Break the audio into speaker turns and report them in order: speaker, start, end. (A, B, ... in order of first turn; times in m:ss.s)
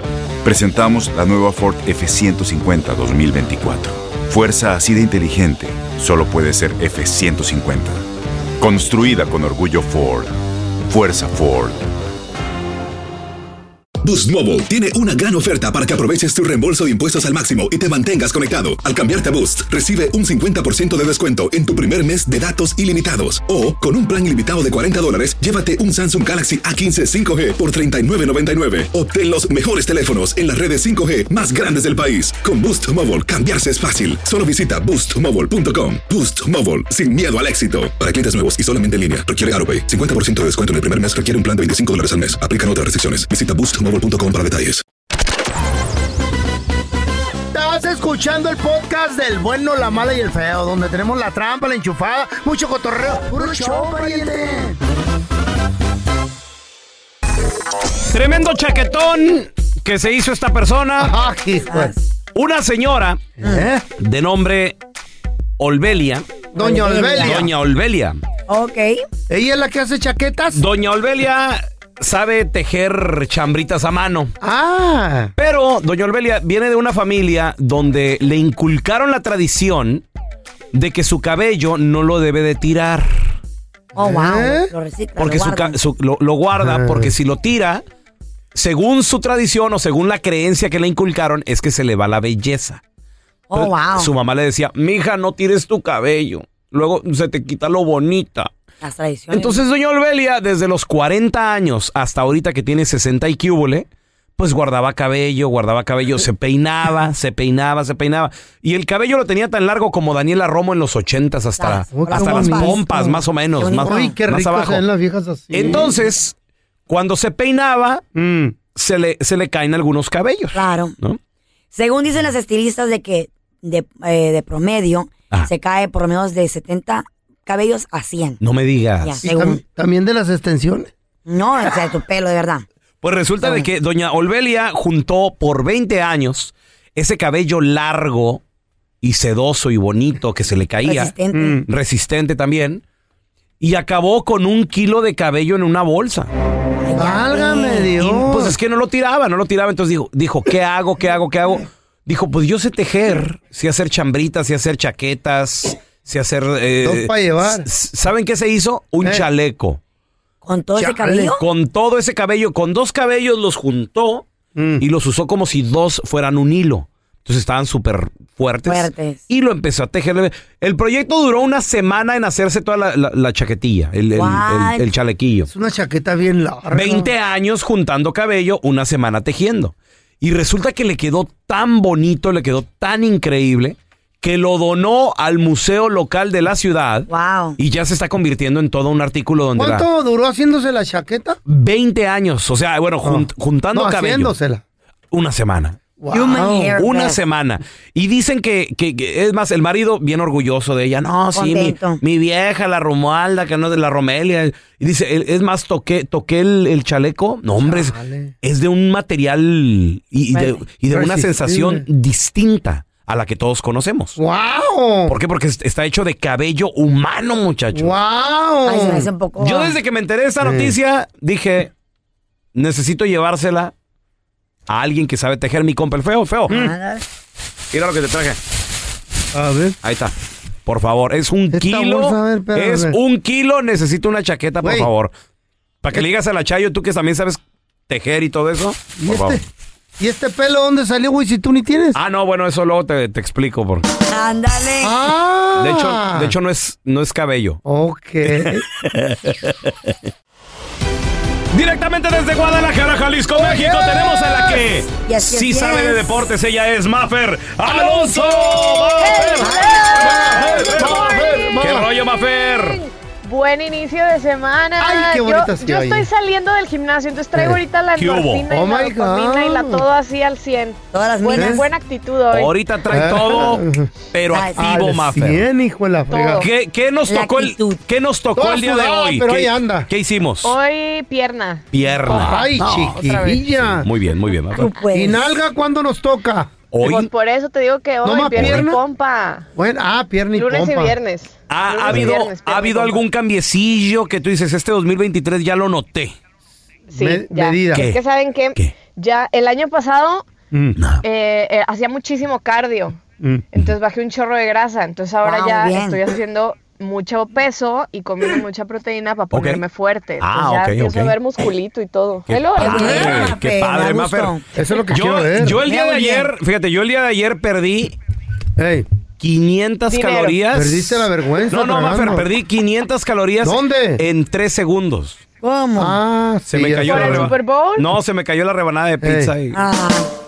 0:00.4-0:08.0 A
0:08.6-0:10.3 A
0:10.8-0:11.8 A
0:14.0-0:44.8 B
0:47.5-0:54.8 C
0:53.4-0:54.3 D
0:58.1-1:01.1 E
1:01.0-1:01.9 C
1:01.7-1:02.0 D
1:02.4-1:03.3 E
1:03.4-1:03.8 C
1:04.0-1:04.8 E
1:05.6-1:06.3 E
1:06.5-1:07.5 C
1:06.6-1:07.5 D
1:07.2-1:08.2 E
1:08.5-1:09.0 D
1:09.3-1:10.6 C
1:10.5-1:14.3 E
1:14.4-1:15.3 C
1:15.4-1:20.0 E
1:20.7-1:23.4 E
1:24.0-1:25.8 D
1:24.0-1:24.7 C
1:25.2-1:27.8 E
1:26.6-1:27.1 C
1:28.6-1:32.8 E
1:33.5-1:34.1 D
1:33.5-1:38.5 E
1:38.8-1:39.6 D
1:39.3-1:43.9 E
1:44.4-1:54.8 E
1:51.6-1:54.1 D
1:52.0-1:52.8 C
1:53.8-1:55.9 C
1:55.5-1:56.3 E
1:56.9-1:58.0 E
1:58.2-1:58.6 C
1:58.8-2:01.2 E
2:00.6-2:01.0 D
2:01.7-2:08.4 D
2:08.4-2:09.2 E
2:09.0-2:09.6 D
2:09.2-2:10.9 C
2:11.3-2:12.6 D
2:13.0-2:18.4 E
2:19.0-2:21.1 E
2:20.8-2:21.6 D
2:21.3-2:21.7 C
2:21.7-2:22.8 E
2:23.6-2:26.3 E
2:26.8-2:27.9 D
2:27.0-2:28.5 C
2:28.0-2:39.8 E
2:36.8-2:37.7 C
2:40.4-2:41.4 D
2:40.8-2:41.3 C
2:41.4-2:44.2 E
2:44.6-2:44.8 C
2:44.8-2:55.5 E
2:48.7-2:49.2 D
2:54.2-2:54.9 D
2:55.5-2:57.1 C
2:56.7-3:09.9 E
3:07.1-3:07.6 D
3:09.6-3:11.4 C
3:11.5-3:14.3 E
3:13.0-3:14.6 C
3:15.1-3:15.8 E
3:16.0-3:16.8 C
3:16.1-3:17.2 D
3:16.8-3:34.2 E
3:21.3-3:22.0 D
3:27.6-3:28.3 C
3:30.3-3:30.6 D
3:30.9-3:31.8 C
3:34.2-3:35.2 C
3:35.1-3:38.0 E
3:37.7-3:39.1 C
3:38.7-3:39.8 D
3:39.4-3:41.7 E
3:40.4-3:40.8 C
3:42.6-3:43.7 E
3:44.7-3:46.6 E
3:46.5-3:47.0 D
3:47.7-3:48.4 E
3:49.3-3:49.8 C
3:49.8-3:50.1 E
3:50.7-3:55.1 E
3:51.5-3:53.0 C
3:54.6-3:54.9 C
3:55.8-3:59.4 E
3:59.0-3:59.4 C
4:00.0-4:02.0 C
4:02.0-4:03.8 E
4:04.1-4:04.9 D
4:04.8-4:06.3 C
4:05.6-4:07.6 E
4:07.6-4:08.6 C
4:08.3-4:09.9 E
4:11.5-4:22.8 E
4:13.4-4:14.6 C
4:15.0-4:16.0 D
4:17.7-4:21.9 C
4:19.0-4:21.4 F
4:19.4-4:20.2 D
4:23.2-4:32.5 F
4:24.8-4:26.1 C
4:27.4-4:27.6 C
4:28.0-4:28.5 E
4:28.5-4:29.8 C
4:30.9-4:31.6 D
4:31.3-4:31.6 C
4:32.3-4:35.5 E
4:32.9-4:33.9 C
4:34.3-4:34.6 D
4:34.6-4:36.4 C
4:36.1-4:36.5 F
4:36.4-4:40.6 E
4:37.1-4:37.8 D
4:38.4-4:39.9 C
4:40.4-4:43.5 F
4:41.7-4:43.0 E
4:42.1-4:43.9 C
4:43.7-4:44.7 E
4:44.5-4:45.3 D
4:44.9-4:46.5 C
4:46.7-4:47.1 E
4:46.8-4:49.5 F
4:48.0-4:48.8 C
4:48.4-4:48.7 E
4:49.6-4:51.0 C
4:50.3-4:53.0 F
4:51.5-4:56.2 E
4:56.9-5:00.3 F
4:57.0-4:57.9 C
4:57.7-4:58.0 E
5:00.5-5:00.8 C
5:00.8-5:01.0 E
5:01.0-5:03.0 F
5:03.5-5:13.3 F
5:05.2-5:06.0 D
5:09.3-5:09.6 E
5:10.2-5:11.1 E
5:12.3-5:14.4 E
5:12.6-5:14.4 D
5:14.6-5:15.6 C
5:14.9-5:18.0 E
5:15.6-5:16.3 D
5:18.6-5:18.9 C
5:19.2-5:25.2 E
5:19.9-5:20.4 F
5:20.5-5:22.3 C
5:23.4-5:24.0 C
5:25.4-5:26.0 D
5:25.8-5:27.3 C
5:26.5-5:29.6 E
5:26.8-5:27.9 F
5:29.0-5:29.3 C
5:29.5-5:30.1 D